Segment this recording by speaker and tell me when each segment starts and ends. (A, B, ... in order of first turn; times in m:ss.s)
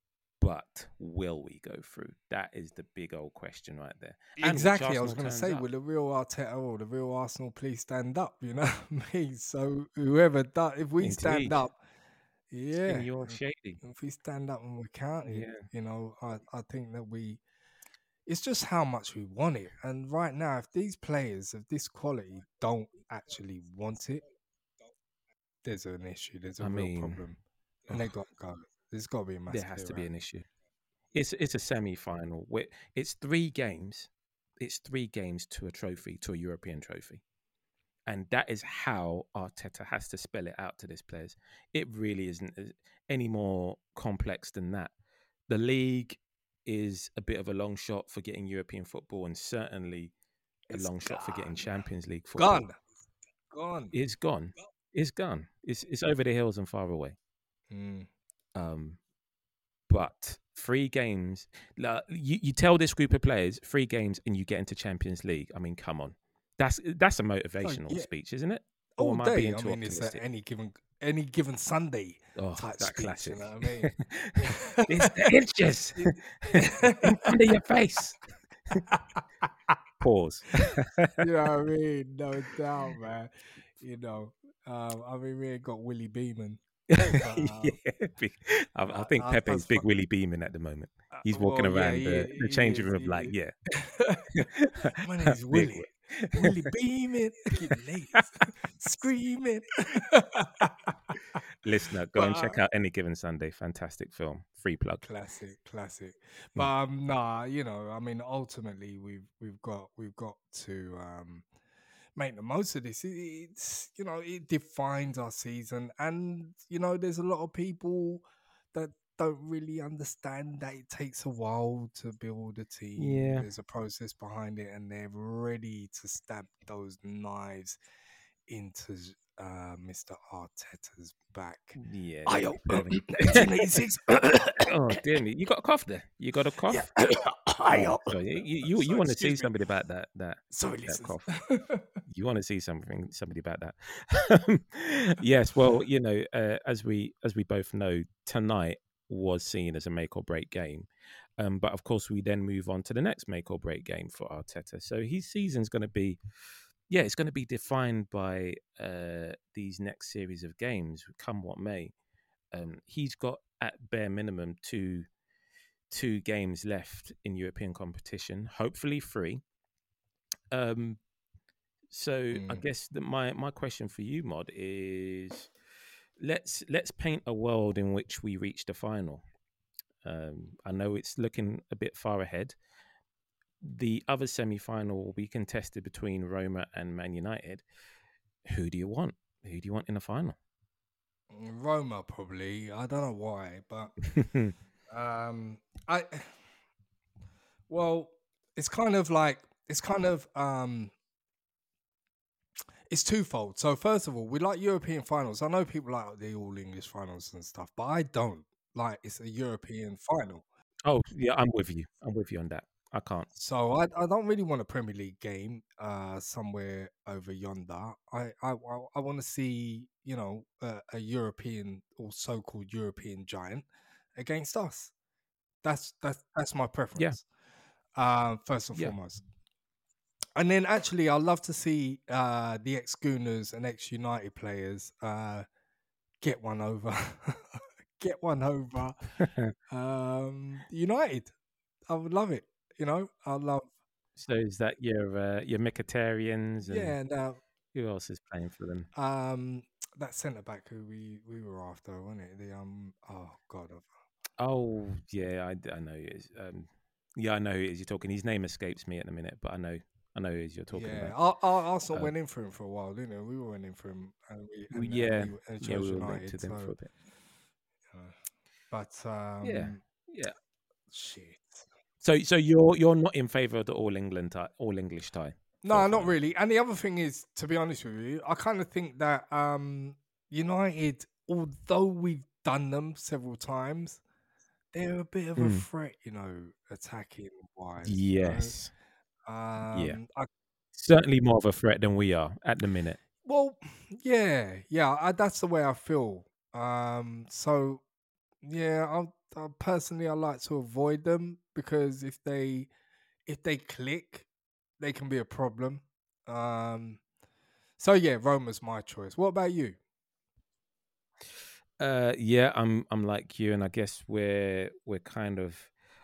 0:00.4-0:05.6 A
0:04.4-0:11.8 B
0:11.0-0:11.6 A
0:12.5-0:17.4 B
0:12.8-0:13.8 A
0:15.2-0:15.7 A
0:18.3-0:24.2 B
0:25.6-0:30.1 B
0:26.6-0:27.2 A
0:29.5-0:30.4 A
0:31.1-0:37.2 A
0:38.1-0:44.9 A
0:45.5-0:50.1 A
0:50.7-0:52.6 A
0:50.7-0:51.7 B
0:52.4-0:52.7 B
0:53.5-0:53.9 B
0:53.9-0:57.2 A
0:57.7-0:58.1 B
0:58.5-0:59.0 A
0:59.9-1:10.2 A
1:07.6-1:08.1 B
1:09.0-1:15.3 B
1:12.4-1:18.8 A
1:16.6-1:17.4 B
1:18.9-1:19.2 B
1:20.0-1:21.2 A
1:21.2-1:27.8 B
1:26.9-1:33.5 A
1:28.9-1:29.8 B
1:31.1-1:34.3 B
1:34.3-1:36.7 A
1:35.0-1:40.9 B
1:38.1-1:38.4 A
1:41.6-1:45.0 A
1:42.1-1:42.6 B
1:45.0-1:51.4 B
1:52.2-2:07.8 B
2:03.0-2:03.5 A
2:08.5-2:14.7 B
2:11.8-2:13.7 A
2:14.6-2:16.9 A
2:16.7-2:19.5 B
2:17.7-2:21.3 A
2:20.5-2:21.9 B
2:22.0-2:36.2 A
2:36.9-2:41.9 A
2:42.5-2:45.1 A
2:45.9-2:49.4 A
2:50.5-2:51.0 A
2:51.9-2:55.5 A
2:52.3-2:52.6 B
2:56.2-2:59.2 A
3:00.0-3:02.6 A
3:03.6-3:07.6 A
3:08.4-3:10.4 A
3:11.3-3:13.9 B
3:14.0-3:14.5 A
3:14.9-3:16.4 B
3:17.7-3:20.9 B
3:22.9-3:30.4 B
3:30.8-3:33.3 A
3:33.4-3:44.9 B
3:45.6-3:47.2 B
3:47.9-3:49.2 B
3:50.4-3:55.4 B
3:56.2-3:59.1 B
3:59.2-3:59.5 A
3:59.7-4:01.3 B
4:01.9-4:03.7 B
4:04.2-4:07.0 A
4:06.6-4:07.4 B
4:07.7-4:08.9 A
4:08.9-4:13.9 B
4:14.4-4:21.2 A
4:20.7-4:26.7 B
4:24.7-4:26.9 A
4:27.9-4:28.1 B
4:28.7-4:29.8 B
4:29.4-4:30.3 A
4:30.9-4:31.6 B
4:32.0-4:36.1 A
4:35.6-4:44.0 B
4:44.7-4:48.6 B
4:45.4-4:45.6 A
4:47.8-4:48.7 A
4:49.2-4:50.3 B
4:49.7-4:50.0 A
4:50.7-4:53.0 A
4:53.2-4:57.8 B
4:58.4-5:02.7 B
5:03.2-5:04.3 B
5:04.8-5:07.0 B
5:07.8-5:09.8 B
5:11.8-5:15.7 A